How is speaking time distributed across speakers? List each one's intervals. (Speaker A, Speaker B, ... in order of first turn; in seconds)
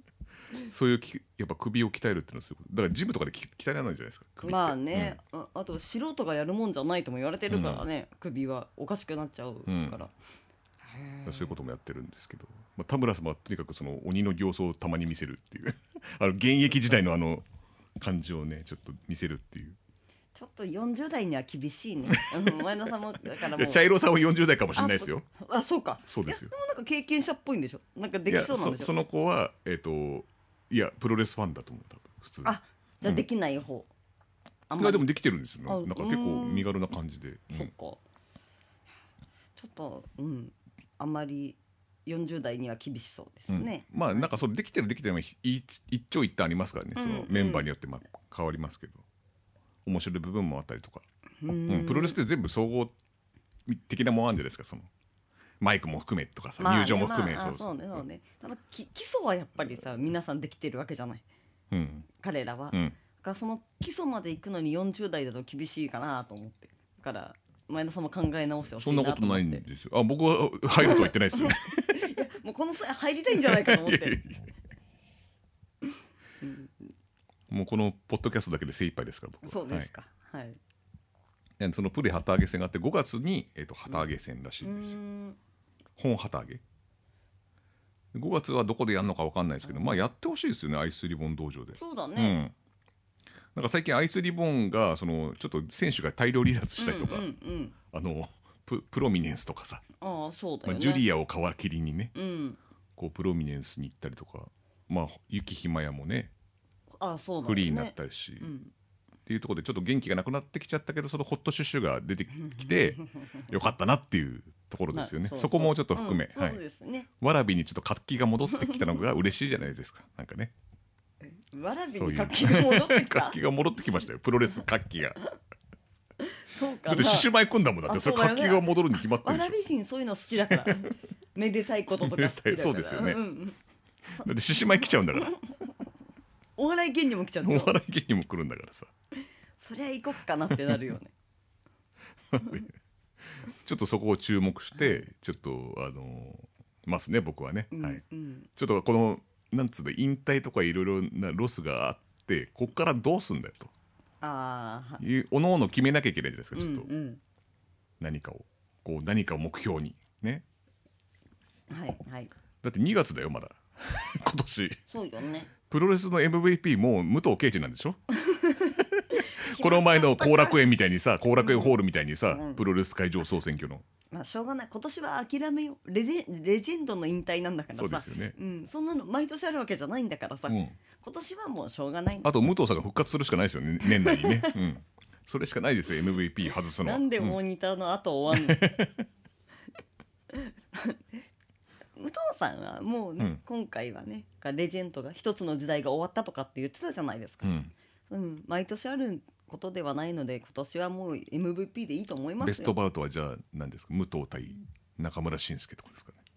Speaker A: 0.7-5.2, 7.5-7.8, 9.7-10.0, 11.2-17.4, 18.0-19.8, 22.1-22.6, 23.3-25.3, 26.1-26.5, 28.3-33.2, 34.8-37.7, 43.5-49.0, 49.9-51.0, 51.7-53.0, 53.7-54.9, 55.6-58.0, 61.7-62.1, 68.8-72.1, 73.3-74.5, 77.5-79.9, 81.6-85.0, 86.0-86.6, 88.1-92.5, 93.5-97.3, 97.9-99.8, 100.7-102.1, 103.0-106.3, 107.4-108.5, 109.3-116.6, 117.2-120.5, 121.9-125.2, 126.9-129.6, 130.3-130.9, 132.0-133.2, 134.2-135.4, 137.4-138.9, 142.3-142.7, 143.4-148.0, 148.6-153.7, 155.0-156.9, 158.0-160.4, 162.6-164.8, 165.7-168.0, 168.6-173.8, 177.8-178.3, 180.5-180.8, 182.2-187.4, 188.3-189.1, 197.4-197.7, 202.4-206.2
Speaker B: 4.4-10.1, 10.9-11.5, 20.4-23.9, 24.8-28.9, 32.4-33.9, 34.7-35.1, 35.7-36.7, 37.5-38.0, 39.6-44.4, 47.0-47.7, 51.4-52.2, 56.6-61.2, 62.2-69.6, 70.8-74.2, 76.4-76.9, 79.4-80.6, 84.6-85.4, 89.6-90.0, 91.8-92.4, 96.8-97.8, 100.0-101.0, 102.1-102.6, 107.0-108.7, 112.4-113.5, 114.9-117.1, 118.5-118.9, 121.2-123.4, 126.2-127.3, 127.8-133.6, 135.1-135.4, 136.6-137.8, 139.6-141.1, 144.8-145.1, 147.7-148.5, 154.2-155.0, 156.6-157.2, 161.7-162.3, 164.9-165.5, 168.2-170.6, 171.4-171.8, 172.3-172.6, 174.1-182.3, 183.8-184.6, 186.8-188.8, 190.3-191.0, 192.0-197.6, 198.1-202.8